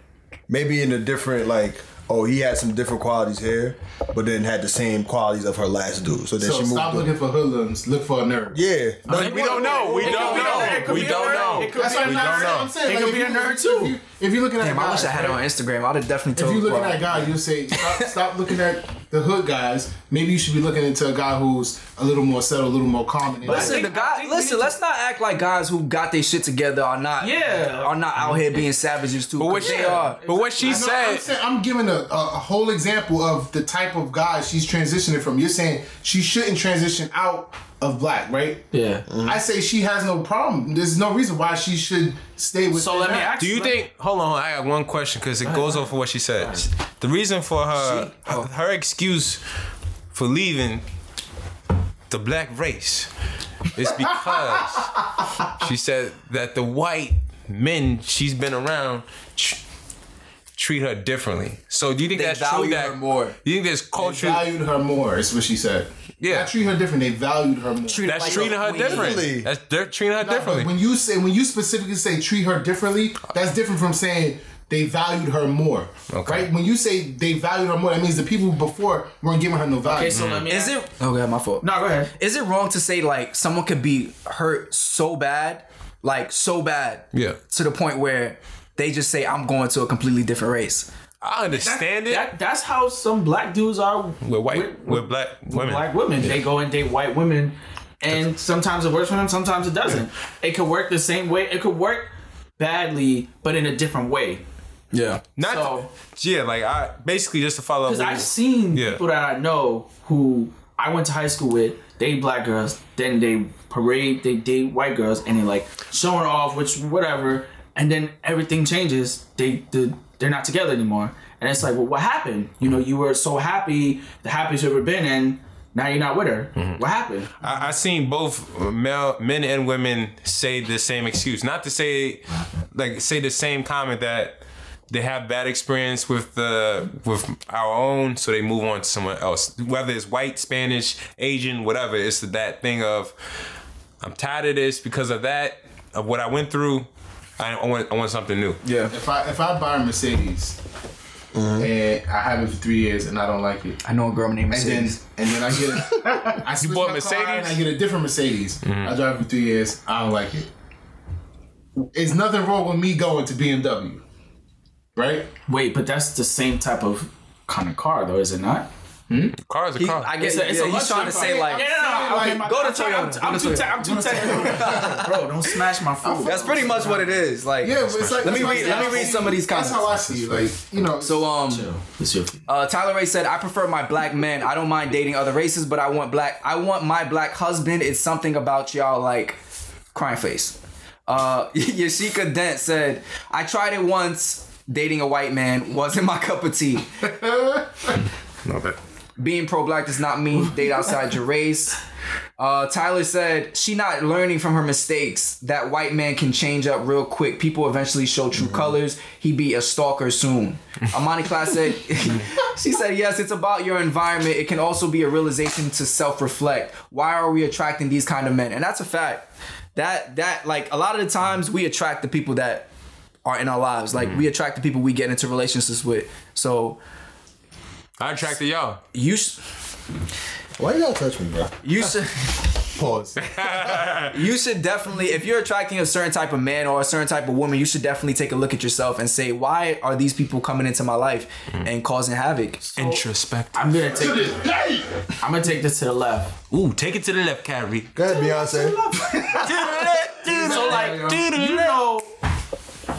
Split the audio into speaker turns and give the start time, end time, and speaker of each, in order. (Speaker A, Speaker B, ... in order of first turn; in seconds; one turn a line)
Speaker A: 0.5-7.1
Speaker B: 6.4-8.6
Speaker A: 8.5-10.0
Speaker C: 9.1-14.0
Speaker D: 9.1-12.8
Speaker E: 9.8-11.8
Speaker B: 10.2-10.7
Speaker B: 11.7-15.4
Speaker E: 14.6-17.3
Speaker B: 16.4-23.9
Speaker C: 23.4-24.7
Speaker E: 23.4-30.2
Speaker C: 27.2-28.6
Speaker D: 29.4-31.3
Speaker C: 29.6-30.9
Speaker B: 30.6-38.6
Speaker C: 38.7-39.0
Speaker A: 39.1-39.4
Speaker B: 39.2-43.3
Speaker C: 42.7-43.8
Speaker D: 43.4-49.4
Speaker C: 45.4-46.7
Speaker C: 47.8-48.1
Speaker E: 48.2-48.5
Speaker D: 50.1-50.8
Speaker D: 52.1-53.1
Speaker D: 53.7-54.9
Speaker D: 55.5-59.6
Speaker D: 60.5-64.4
Speaker E: 62.1-63.4
Speaker B: 64.0-68.4
Speaker D: 66.2-66.5
Speaker E: 67.9-69.2
Speaker D: 68.0-70.7
Speaker A: 68.7-69.5
Speaker B: 70.2-80.3
Speaker D: 76.1-76.5
Speaker C: 79.8-80.8
Speaker D: 80.1-80.5
Speaker E: 80.5-90.9
Speaker C: 81.6-82.1
Speaker D: 91.2-92.3
Speaker C: 91.5-104.4
Speaker D: 94.2-96.4
Speaker E: 104.9-105.2
Speaker D: 105.4-109.0
Speaker C: 105.4-105.9
Speaker C: 107.9-127.3
Speaker D: 126.5-126.8
Speaker D: 127.4-143.1
Speaker D: 144.0-146.9
Speaker D: 147.4-148.6
Speaker E: 148.6-148.9
Speaker B: 148.9-150.6
Speaker A: 151.3-151.7
Speaker B: 151.6-153.8
Speaker E: 153.8-155.0
Speaker B: 154.5-160.5
Speaker D: 156.6-157.6
Speaker D: 158.6-158.9
Speaker B: 161.9-164.0
Speaker B: 164.9-165.3
Speaker C: 165.5-168.7
Speaker D: 169.4-170.2
Speaker E: 169.8-171.7
Speaker C: 170.2-177.2
Speaker B: 170.9-172.6
Speaker E: 172.3-175.2
Speaker B: 173.8-175.1
Speaker B: 176.0-181.3
Speaker E: 176.2-180.4
Speaker D: 177.8-178.4
Speaker C: 178.2-179.2
Speaker E: 181.0-181.7
Speaker C: 181.5-182.4
Speaker E: 182.5-189.4
Speaker E: 189.9-196.8
Speaker B: 197.0-197.9
Speaker D: 198.4-198.8
Speaker E: 199.2-201.8
Speaker E: 202.4-222.7
Speaker A: 208.4-208.7
Speaker E: 223.2-226.8
Speaker D: 224.0-224.2
Speaker D: 228.0-228.8
Speaker E: 228.9-229.4
Speaker A: 230.6-231.5
Speaker E: 231.6-232.5
Speaker B: 232.7-233.2
Speaker D: 233.2-234.2
Speaker E: 234.1-242.7
Speaker D: 242.7-243.7
Speaker C: 243.5-244.4
Speaker B: 243.9-245.0
Speaker C: 245.2-246.4
Speaker D: 246.5-247.9
Speaker A: 247.9-248.8
Speaker B: 249.2-249.7
Speaker D: 249.4-251.8
Speaker B: 250.2-251.2
Speaker C: 250.3-252.1